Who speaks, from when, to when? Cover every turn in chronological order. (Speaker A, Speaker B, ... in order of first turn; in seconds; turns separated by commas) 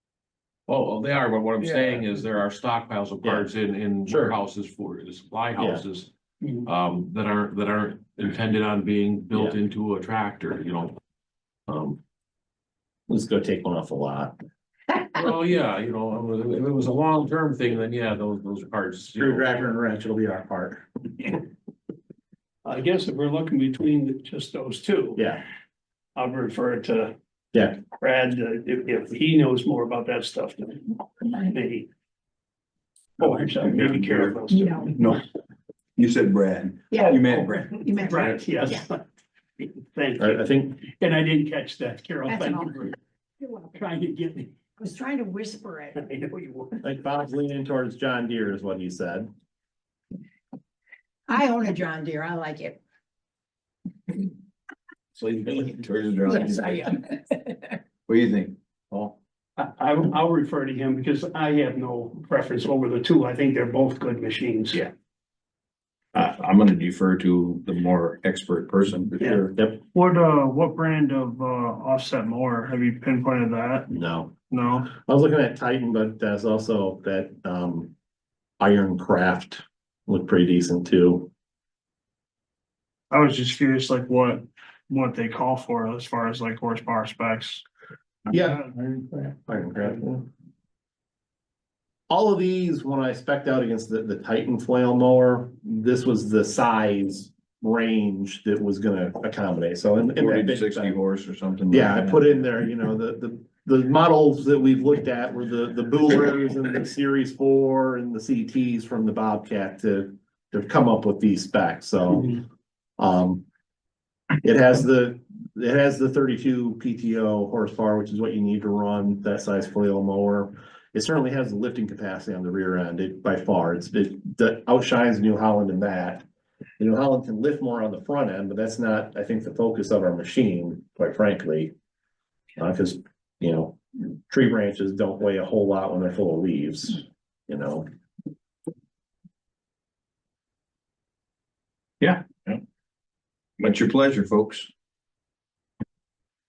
Speaker A: 0.7-6.1, Speaker B: 1.6-2.0, Speaker B: 3.2-3.5, Speaker B: 4.0-4.4, Speaker B: 5.5-5.8, Speaker A: 6.6-10.9, Speaker A: 11.7-12.0, Speaker B: 13.1-14.3, Speaker A: 15.2-19.6, Speaker B: 19.2-20.9, Speaker C: 22.6-25.2, Speaker B: 25.2-25.4, Speaker C: 26.1-27.1, Speaker B: 27.5-27.8, Speaker C: 27.8-31.9, Speaker C: 33.2-35.2, Speaker D: 33.2-34.4, Speaker E: 34.5-34.9, Speaker D: 36.0-37.6, Speaker E: 36.9-38.9, Speaker C: 37.6-39.0, Speaker C: 39.6-43.0, Speaker B: 40.2-40.8, Speaker E: 42.2-42.8, Speaker E: 43.4-43.8, Speaker C: 43.7-44.6, Speaker E: 44.8-46.0, Speaker C: 46.0-46.8, Speaker B: 46.8-49.3, Speaker E: 51.3-52.8, Speaker D: 55.1-57.0, Speaker E: 56.2-57.7, Speaker D: 58.1-59.2, Speaker C: 59.6-64.9, Speaker D: 66.1-69.5, Speaker C: 69.2-69.5, Speaker B: 69.5-69.8, Speaker F: 69.9-73.9, Speaker B: 73.9-74.3, Speaker F: 74.5-74.9, Speaker B: 74.9-77.9, Speaker B: 78.6-81.3, Speaker F: 83.1-87.6, Speaker B: 88.3-90.3, Speaker F: 88.3-89.0, Speaker B: 92.1-101.0, Speaker D: 100.1-102.4, Speaker B: 101.7-112.4, Speaker B: 113.0-113.4, Speaker B: 114.4-126.2, Speaker B: 126.8-131.7, Speaker B: 132.6-137.8, Speaker D: 142.0-142.6, Speaker D: 143.6-144.7